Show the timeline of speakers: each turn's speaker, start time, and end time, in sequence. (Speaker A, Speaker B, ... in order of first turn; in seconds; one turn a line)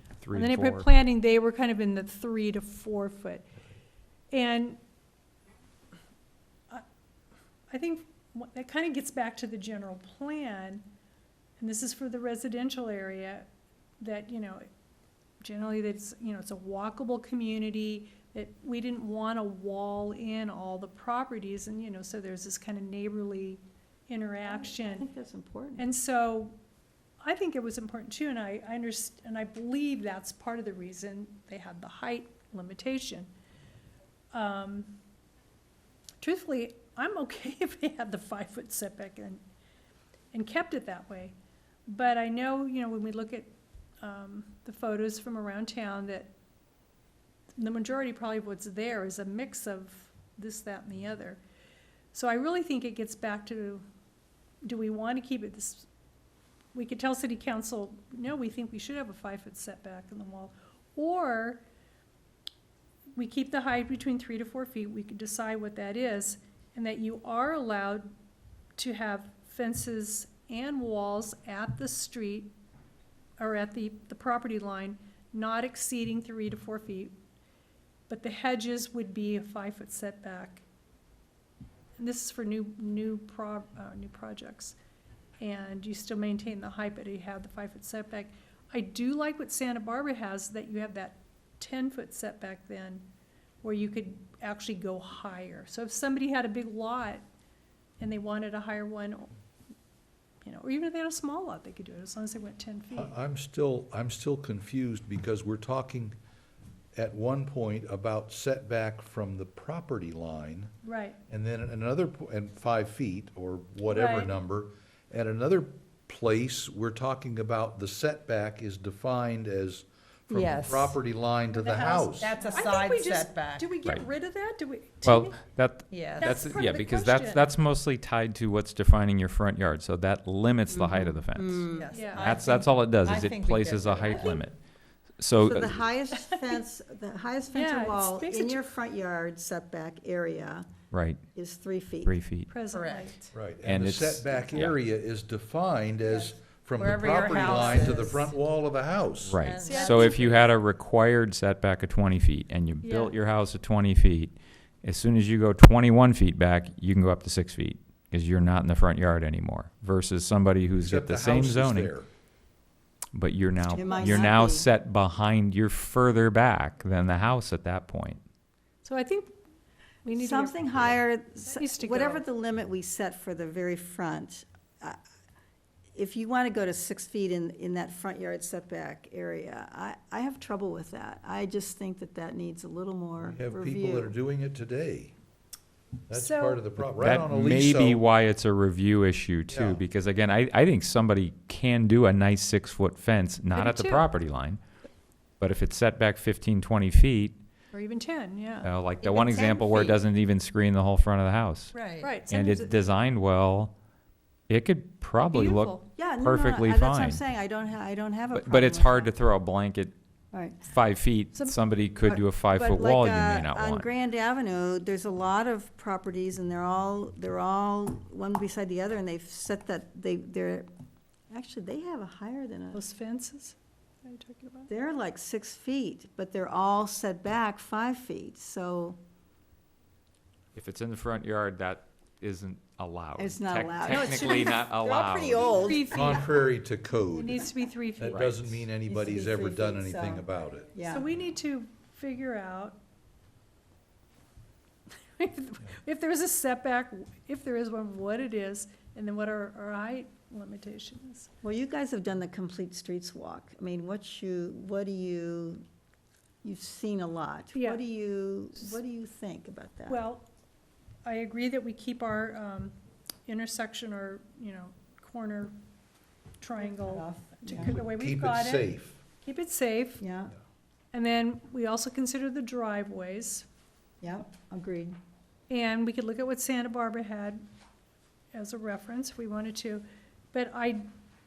Speaker A: 0.2-0.9
Speaker B: 0.3-3.5
Speaker B: 4.3-4.8
Speaker B: 7.7-10.8
Speaker B: 11.6-13.5
Speaker B: 14.0-14.7
Speaker B: 15.4-25.1
Speaker C: 24.4-25.9
Speaker B: 25.8-26.6
Speaker B: 27.2-33.3
Speaker B: 34.3-35.0
Speaker B: 36.2-39.4
Speaker B: 40.3-41.3
Speaker B: 41.9-46.3
Speaker B: 47.6-51.4
Speaker B: 52.1-53.8
Speaker B: 54.6-55.9
Speaker B: 56.7-61.6
Speaker B: 63.1-68.1
Speaker B: 68.8-72.5
Speaker B: 73.4-77.1
Speaker B: 78.1-80.7
Speaker B: 82.0-84.8
Speaker B: 85.4-93.0
Speaker B: 93.6-97.2
Speaker B: 98.0-99.3
Speaker B: 100.4-103.1
Speaker D: 102.9-106.2
Speaker D: 107.0-110.7
Speaker B: 110.8-111.2
Speaker D: 111.3-122.4
Speaker B: 113.9-114.3
Speaker E: 120.3-121.0
Speaker B: 121.5-125.4
Speaker E: 122.2-123.7
Speaker A: 125.0-134.6
Speaker E: 125.9-126.4
Speaker B: 126.2-127.5
Speaker C: 130.7-132.0
Speaker E: 131.6-134.4
Speaker B: 131.9-132.4
Speaker A: 135.2-135.8
Speaker C: 135.4-140.7
Speaker B: 137.5-138.7
Speaker A: 140.9-141.2
Speaker C: 141.3-142.2
Speaker A: 142.0-142.5
Speaker B: 142.5-143.2
Speaker E: 142.7-143.3
Speaker D: 143.3-149.4
Speaker A: 143.6-144.8
Speaker E: 146.1-148.4
Speaker A: 149.2-161.9
Speaker E: 149.4-150.5
Speaker B: 149.6-150.2
Speaker B: 152.8-153.1
Speaker D: 160.8-162.1
Speaker A: 163.1-168.2
Speaker B: 163.6-164.3
Speaker C: 163.8-164.7
Speaker B: 168.8-169.3
Speaker B: 170.0-170.9
Speaker C: 170.1-175.0
Speaker B: 171.5-172.2
Speaker C: 175.9-184.2
Speaker D: 183.2-185.1
Speaker D: 186.1-188.0
Speaker B: 186.1-186.6
Speaker A: 186.8-194.6
Speaker D: 189.5-189.8
Speaker B: 193.5-194.1
Speaker A: 195.4-197.4
Speaker B: 197.7-198.7
Speaker A: 198.6-201.7
Speaker C: 199.1-199.9
Speaker E: 199.4-199.9
Speaker E: 201.7-202.2
Speaker B: 202.0-202.8
Speaker A: 202.3-203.7
Speaker A: 204.5-207.2
Speaker B: 205.3-205.8
Speaker C: 206.0-209.1
Speaker A: 208.3-209.9
Speaker C: 210.3-210.6
Speaker A: 210.6-213.9
Speaker C: 212.0-220.7
Speaker C: 221.3-222.8
Speaker B: 222.7-224.7
Speaker C: 224.7-229.0
Speaker A: 230.6-235.7
Speaker C: 233.2-236.3
Speaker B: 235.5-236.3
Speaker D: 235.9-240.7
Speaker B: 237.1-238.3
Speaker A: 238.1-238.6
Speaker C: 238.8-241.1
Speaker B: 240.9-242.8
Speaker B: 245.2-251.3
Speaker C: 251.4-255.6
Speaker C: 256.4-260.0
Speaker B: 257.5-257.8
Speaker B: 259.9-260.3
Speaker B: 261.1-262.7
Speaker B: 263.3-265.5
Speaker B: 266.4-270.0
Speaker C: 266.6-267.7
Speaker D: 267.5-269.0
Speaker C: 270.0-270.3
Speaker B: 270.9-273.5
Speaker C: 274.0-275.0
Speaker B: 275.5-277.4
Speaker B: 278.3-280.9